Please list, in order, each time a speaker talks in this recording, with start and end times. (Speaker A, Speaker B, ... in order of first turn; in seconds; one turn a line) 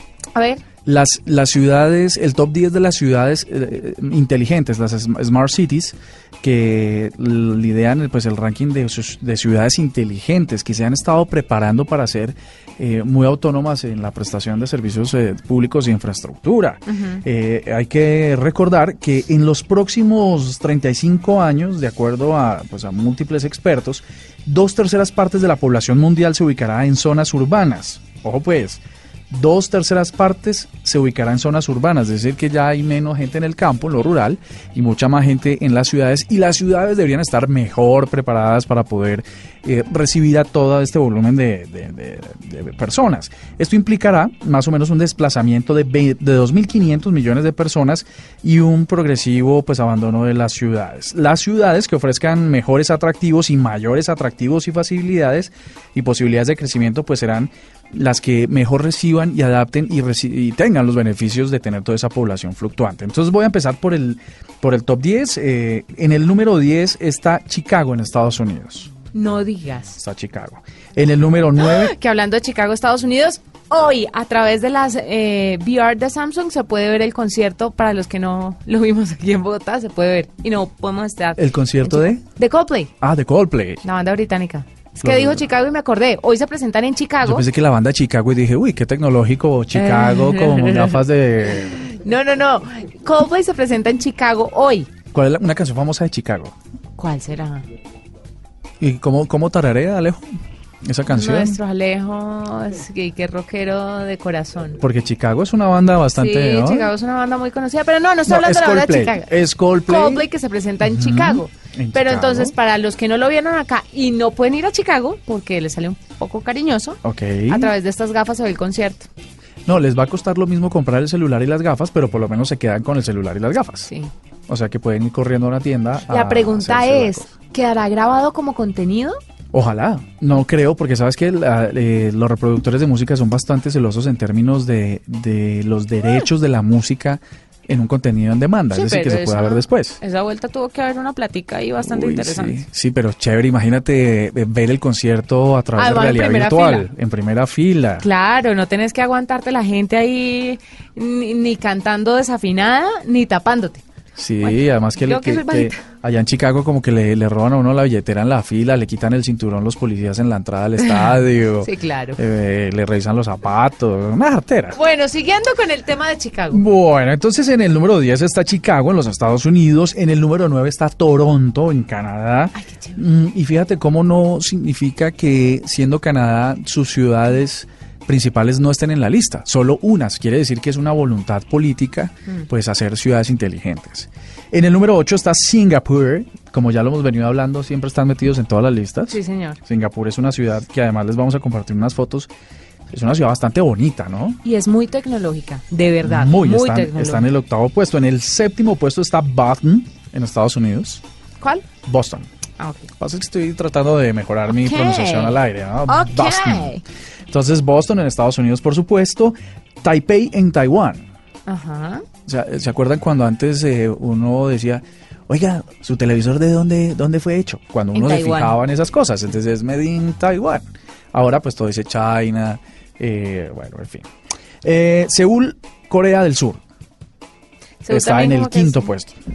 Speaker A: 0.3-0.6
Speaker B: 0.8-68.9
Speaker A: 16.9-17.2
Speaker A: 69.1-70.0
Speaker B: 70.0-71.9
Speaker A: 71.6-82.9
Speaker B: 81.4-82.2
Speaker B: 83.0-83.8
Speaker A: 83.8-87.5
Speaker B: 85.0-85.4
Speaker B: 87.2-91.9
Speaker A: 89.7-94.9
Speaker B: 95.1-96.5
Speaker A: 97.0-97.7
Speaker B: 98.8-100.3
Speaker B: 100.8-101.6
Speaker A: 101.1-104.8
Speaker B: 104.8-106.9
Speaker A: 106.1-119.1
Speaker B: 108.3-110.3
Speaker B: 110.8-112.5
Speaker B: 117.0-117.7
Speaker B: 119.7-123.9
Speaker A: 123.8-124.1
Speaker B: 124.5-127.3
Speaker A: 126.1-129.2
Speaker B: 129.5-140.0
Speaker A: 136.0-136.3
Speaker A: 138.7-142.6
Speaker B: 141.8-148.1
Speaker A: 145.8-146.9
Speaker A: 148.0-153.8
Speaker B: 154.2-164.8
Speaker A: 154.4-155.8
Speaker A: 160.8-162.2
Speaker A: 164.7-166.7
Speaker B: 166.5-192.3
Speaker A: 172.6-173.0
Speaker A: 189.1-189.6
Speaker B: 192.9-194.4
Speaker A: 194.4-197.3
Speaker B: 196.0-201.0
Speaker A: 201.4-201.7
Speaker B: 201.9-202.3
Speaker A: 202.6-202.9
Speaker B: 203.0-206.8
Speaker A: 204.5-206.8
Speaker B: 207.3-211.0
Speaker A: 211.5-212.1
Speaker B: 212.3-224.1
Speaker A: 217.9-218.6
Speaker B: 224.6-226.6
Speaker A: 227.8-228.9
Speaker B: 227.9-229.2